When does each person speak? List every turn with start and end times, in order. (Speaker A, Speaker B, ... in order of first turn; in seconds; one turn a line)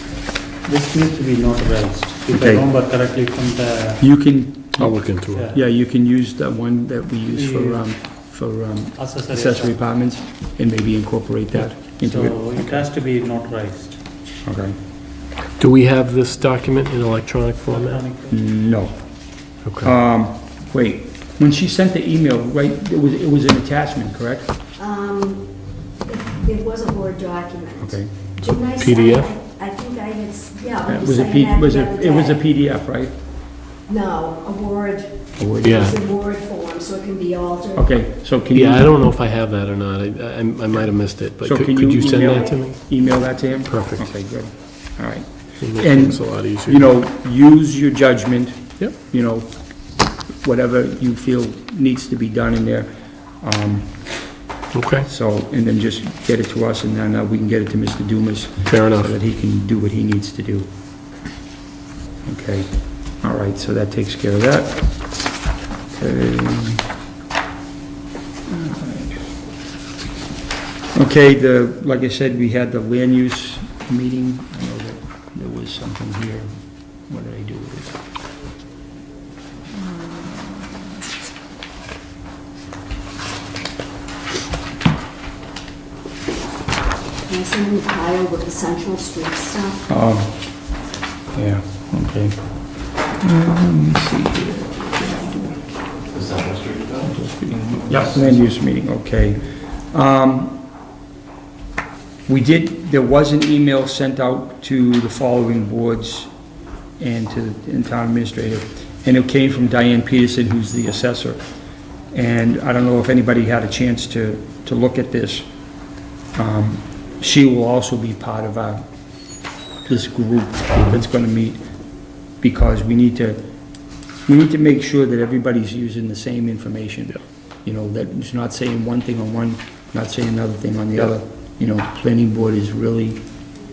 Speaker A: 0.7-4.0
Speaker B: 2.3-2.7
Speaker B: 4.0-12.4
Speaker C: 4.8-5.5
Speaker A: 5.3-5.6
Speaker A: 7.3-7.9
Speaker A: 9.0-9.8
Speaker A: 11.5-14.0
Speaker B: 14.4-14.8
Speaker C: 15.6-18.0
Speaker A: 17.7-18.4
Speaker B: 18.3-19.0
Speaker C: 19.6-19.9
Speaker B: 19.8-24.5
Speaker D: 24.8-32.4
Speaker B: 27.8-28.1
Speaker C: 28.8-29.3
Speaker B: 30.9-33.1
Speaker D: 33.9-37.9
Speaker B: 35.4-35.9
Speaker C: 35.6-36.0
Speaker B: 37.8-39.0
Speaker C: 38.5-42.8
Speaker B: 41.4-49.6
Speaker D: 42.0-42.4
Speaker C: 43.7-44.1
Speaker C: 45.6-46.9
Speaker B: 50.4-54.0
Speaker C: 54.7-55.1
Speaker B: 55.1-60.7
Speaker C: 58.7-59.1
Speaker B: 62.3-62.7
Speaker B: 63.2-64.8
Speaker B: 66.0-66.8
Speaker B: 68.5-69.2
Speaker B: 71.0-76.5
Speaker B: 77.1-78.0
Speaker D: 87.2-89.9
Speaker B: 89.9-90.3
Speaker B: 91.3-92.4
Speaker B: 93.2-95.7
Speaker B: 97.0-100.6
Speaker B: 102.3-106.3
Speaker B: 107.0-111.4
Speaker B: 112.1-115.5
Speaker B: 116.4-118.9
Speaker B: 119.8-121.6
Speaker B: 122.4-123.5
Speaker B: 124.3-133.2